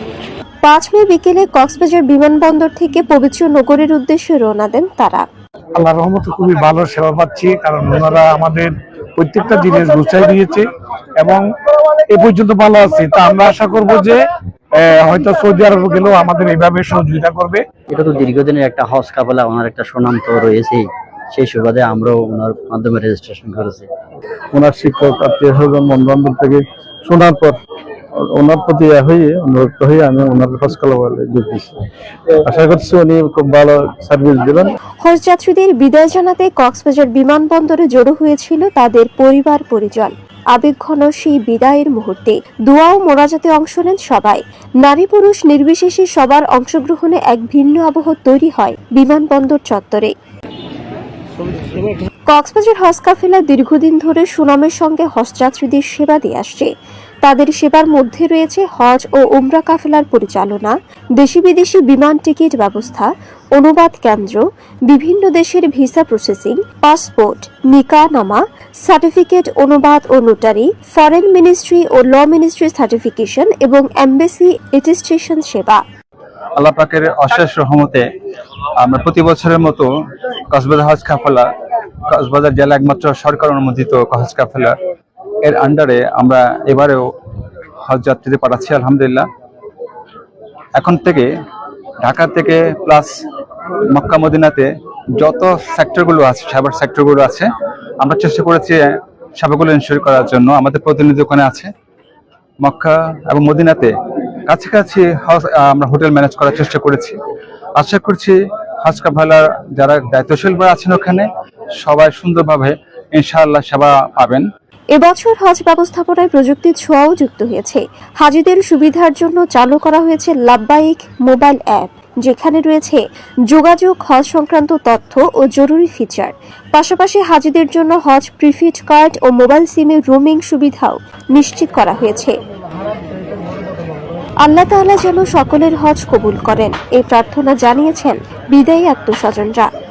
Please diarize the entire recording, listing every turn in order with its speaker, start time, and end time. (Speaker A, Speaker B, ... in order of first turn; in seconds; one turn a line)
Speaker A: 0.6-5.3
Speaker B: 5.8-11.5
Speaker B: 12.1-17.7
Speaker C: 17.9-23.9
Speaker D: 24.5-27.6
Speaker D: 28.3-31.8
Speaker D: 32.4-34.8
Speaker A: 35.0-50.1
Speaker A: 52.3-56.7
Speaker A: 57.2-75.8
Speaker E: 76.6-78.1
Speaker E: 78.8-79.9
Speaker E: 80.5-81.5
Speaker E: 82.1-84.8
Speaker E: 85.5-87.0
Speaker E: 87.9-89.3
Speaker E: 90.8-91.3
Speaker E: 92.0-93.1
Speaker E: 93.9-97.5
Speaker E: 98.0-101.7
Speaker E: 102.6-103.9
Speaker E: 104.5-107.2
Speaker E: 107.8-111.3
Speaker E: 111.8-114.5
Speaker A: 114.9-132.4
Speaker A: 134.4-139.7